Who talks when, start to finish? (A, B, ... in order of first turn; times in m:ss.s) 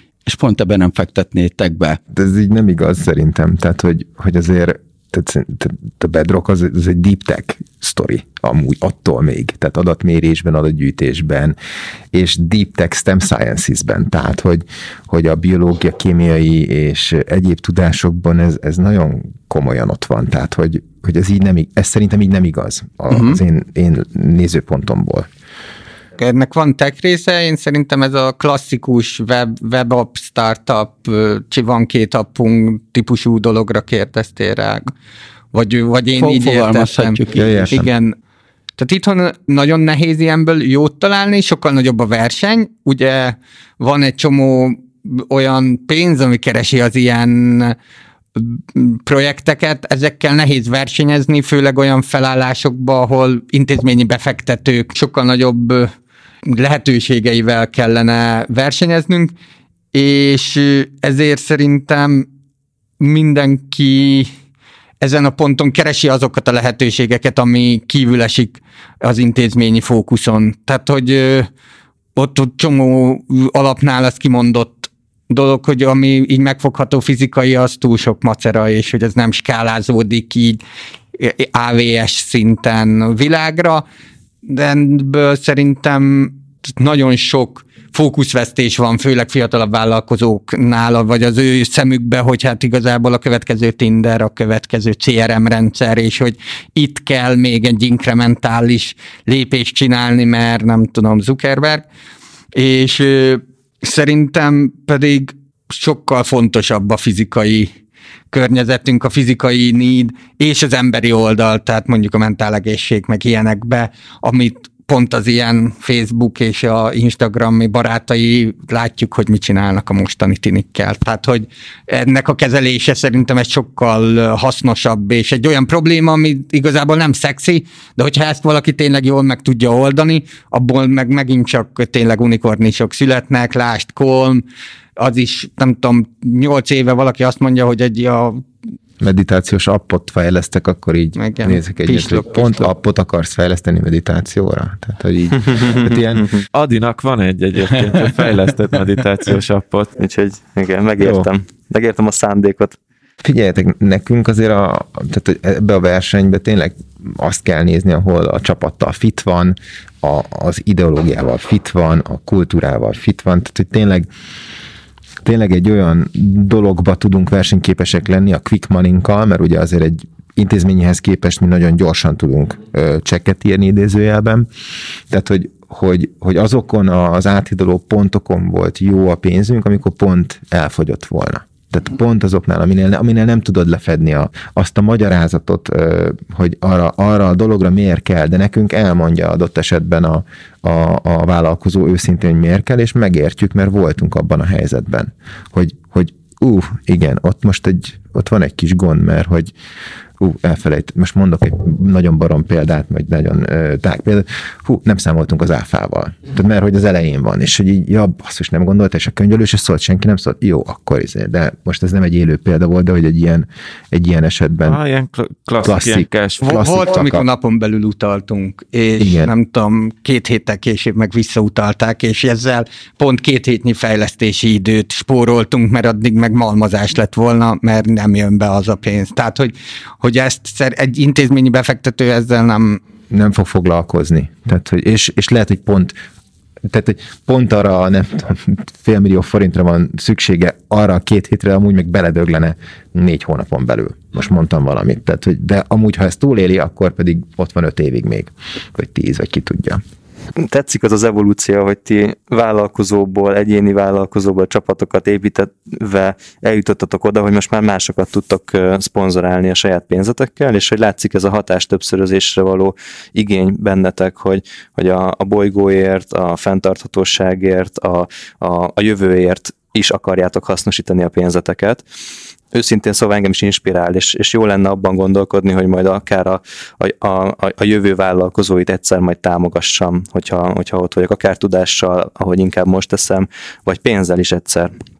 0:00.2-0:02.0 A
0:02.1-0:11.6 B
0:12.1-0:25.3 B
0:23.1-0:23.4 C
0:26.2-0:34.9 C
0:35.5-0:37.2 C
0:36.2-0:37.7 A
0:37.3-0:37.9 B
0:37.7-0:38.2 C
0:38.8-0:47.8 C
0:48.3-0:55.9 C
0:56.4-0:59.3 C
0:59.9-1:02.3 C
1:03.0-1:04.3 C
1:05.0-1:11.5 C
1:12.2-1:20.6 C
1:21.2-1:23.8 C
1:24.4-1:41.8 C
1:42.5-1:47.7 C
1:48.3-2:14.4 C
2:15.0-2:18.4 C
2:19.0-2:26.3 B
2:21.2-2:22.7 C
2:26.5-2:29.9 D
2:30.0-2:32.8 E
2:31.0-2:31.3 B
2:33.2-2:44.1 B
2:45.2-2:54.5 B
2:55.1-3:19.5 B
3:20.2-3:34.8 B
3:34.6-3:36.7 D
3:35.6-3:37.2 B
3:36.4-3:52.8 C
3:39.0-3:39.3 B
3:53.1-3:56.0 B
3:56.6-4:09.8 B
4:10.4-4:31.8 E
4:32.5-4:44.7 E